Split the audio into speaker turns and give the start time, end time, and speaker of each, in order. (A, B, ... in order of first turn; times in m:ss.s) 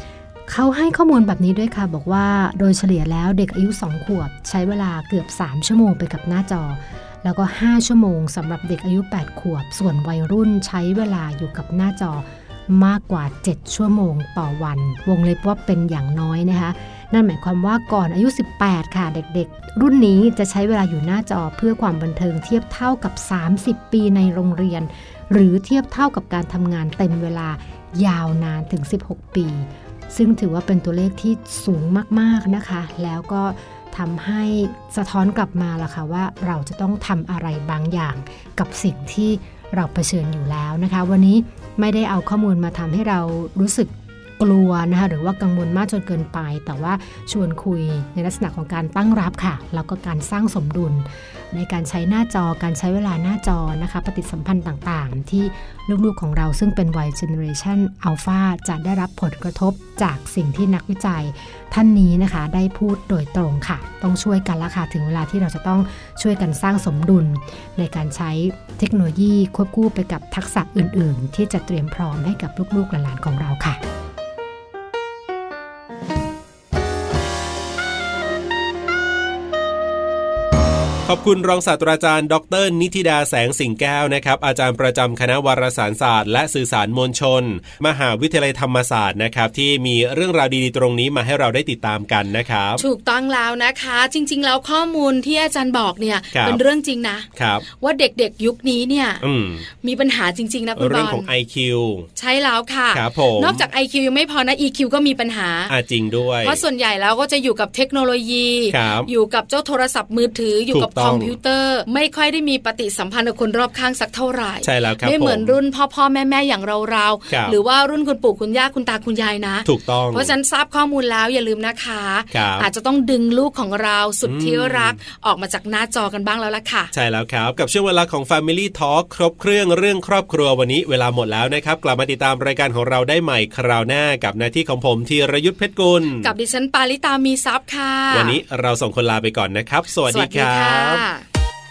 0:00.5-1:13.8 A
1:21.0-1:32.8 B
1:32.8-1:39.2 C
1:36.3-1:36.6 B
1:37.4-1:37.6 B
1:39.2-1:39.6 B
1:39.8-1:41.3 C
1:40.8-1:42.1 B
1:42.2-1:45.7 C
1:42.9-1:43.6 B
1:45.7-1:46.6 B
1:46.4-2:06.9 C
1:48.7-1:49.1 B
1:50.7-1:51.4 B
1:54.6-1:55.6 B
1:57.3-1:57.6 B
1:59.6-2:00.3 B
2:02.3-2:02.7 B
2:04.2-2:05.0 B
2:06.9-2:16.3 B
2:16.2-2:18.4 C
2:18.1-2:21.0 B
2:20.1-2:21.2 C